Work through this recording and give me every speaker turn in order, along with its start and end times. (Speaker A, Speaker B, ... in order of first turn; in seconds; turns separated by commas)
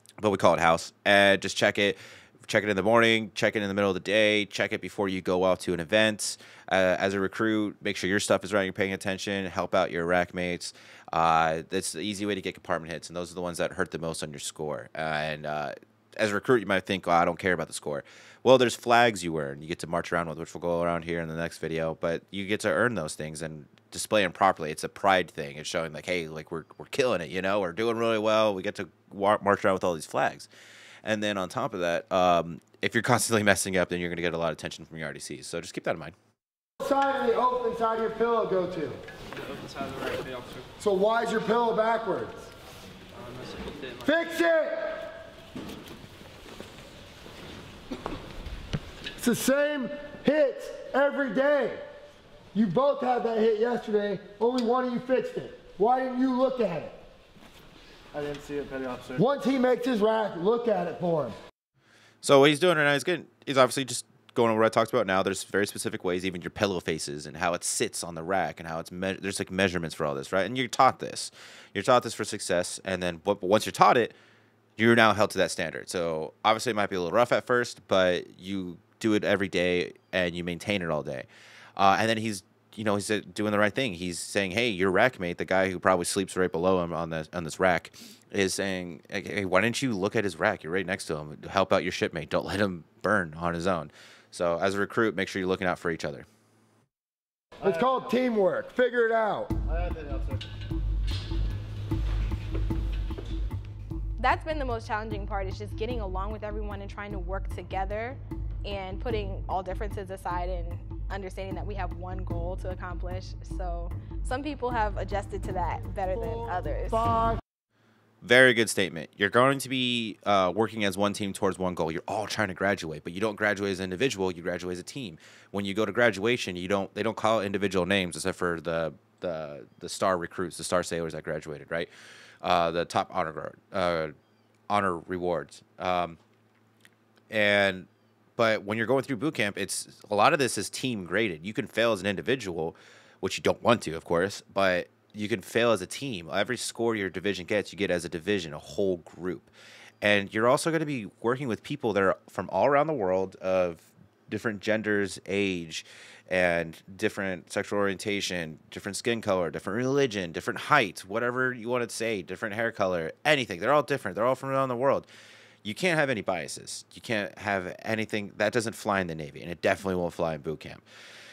Speaker A: 0.2-30.5, Speaker A: 31.0-36.1, Speaker B: 36.8-39.0, Speaker C: 39.3-40.7, Speaker B: 40.8-42.4, Speaker C: 43.1-44.2, Speaker B: 44.0-45.1, Speaker B: 49.2-51.8, Speaker B: 52.5-57.0, Speaker B: 59.1-61.4, Speaker A: 62.2-74.2, Speaker A: 74.8-96.3, Speaker B: 97.6-99.6, Speaker D: 104.2-117.1, Speaker A: 118.2-131.9, Speaker A: 132.4-134.1, Speaker A: 134.7-136.2, Speaker A: 137.3-149.5, Speaker A: 150.0-165.1, Speaker A: 165.6-170.8